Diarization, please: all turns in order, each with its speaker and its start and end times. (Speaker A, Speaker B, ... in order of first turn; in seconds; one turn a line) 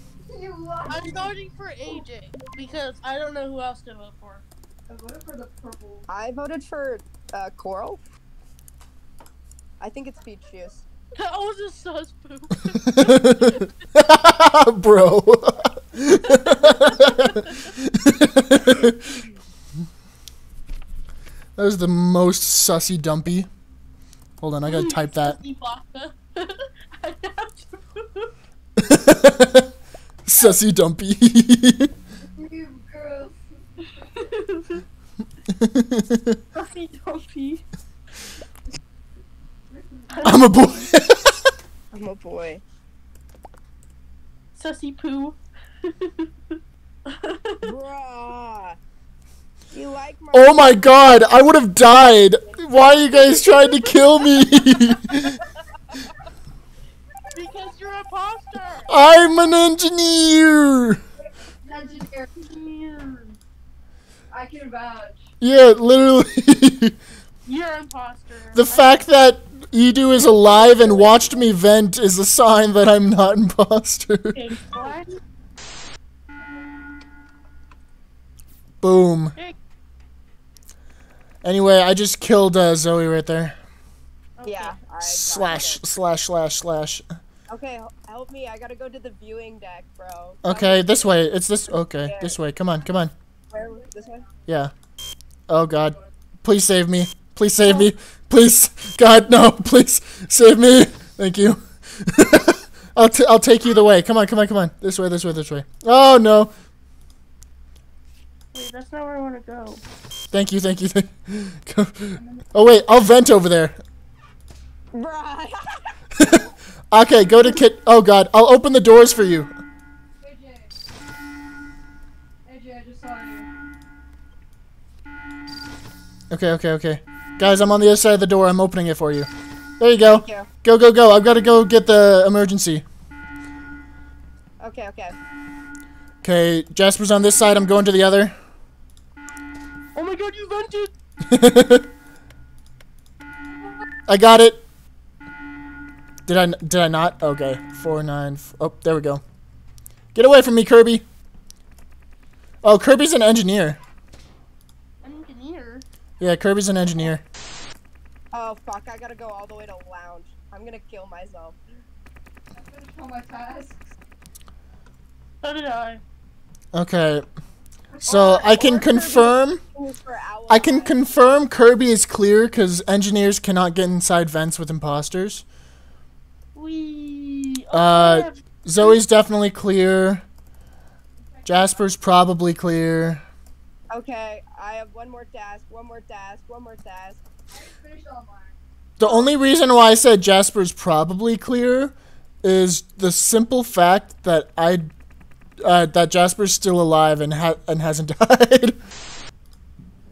Speaker A: 0.2-1.3
Speaker B: 0.9-4.4
Speaker A: 4.9-6.0
Speaker C: 6.1-8.0
Speaker C: 9.8-10.8
Speaker B: 11.2-13.7
Speaker D: 12.8-19.2
Speaker B: 16.3-17.7
Speaker D: 21.6-23.5
Speaker D: 24.4-25.4
Speaker B: 24.6-28.3
Speaker D: 28.8-29.7
Speaker D: 30.2-31.9
Speaker A: 32.3-33.4
Speaker B: 34.0-34.8
Speaker D: 35.5-36.4
Speaker B: 36.5-37.6
Speaker A: 39.7-40.8
Speaker B: 40.1-40.4
Speaker D: 40.2-41.5
Speaker C: 41.9-42.6
Speaker B: 44.5-47.7
Speaker C: 47.6-48.8
Speaker C: 49.7-50.9
Speaker D: 50.3-55.4
Speaker B: 53.3-53.9
Speaker B: 57.3-59.0
Speaker D: 58.9-61.0
Speaker A: 61.2-62.3
Speaker B: 62.4-63.4
Speaker A: 64.3-65.3
Speaker D: 65.4-67.0
Speaker B: 67.5-69.0
Speaker D: 68.5-74.4
Speaker B: 74.3-75.1
Speaker D: 78.8-79.3
Speaker D: 81.4-83.5
Speaker B: 84.4-84.8
Speaker C: 84.4-85.8
Speaker D: 85.0-87.0
Speaker C: 87.5-91.2
Speaker D: 90.4-93.1
Speaker C: 92.0-92.3
Speaker C: 93.5-94.2
Speaker A: 93.9-94.2
Speaker D: 94.5-94.7
Speaker D: 95.5-106.5
Speaker B: 108.5-109.8
Speaker D: 110.3-113.8
Speaker A: 112.2-112.4
Speaker C: 114.9-115.8
Speaker D: 116.2-119.5
Speaker A: 120.2-120.7
Speaker A: 122.5-123.5
Speaker D: 126.3-129.3
Speaker D: 129.8-132.8
Speaker C: 130.0-130.5
Speaker C: 134.6-135.2
Speaker D: 136.2-138.3
Speaker B: 139.9-140.9
Speaker D: 141.2-141.9
Speaker D: 144.1-144.6
Speaker D: 146.2-149.2
Speaker D: 150.1-151.0
Speaker D: 152.6-153.8
Speaker B: 155.0-155.8
Speaker D: 156.2-157.2
Speaker C: 158.3-161.6
Speaker A: 162.5-163.9
Speaker B: 165.4-166.0
Speaker D: 166.7-167.2
Speaker C: 168.0-171.0
Speaker D: 168.1-169.6
Speaker D: 170.5-175.4
Speaker B: 176.5-179.0
Speaker D: 177.7-180.2
Speaker A: 181.2-181.9
Speaker D: 181.4-183.2
Speaker C: 183.9-187.2
Speaker A: 187.5-188.6
Speaker D: 189.0-194.9
Speaker D: 195.6-198.8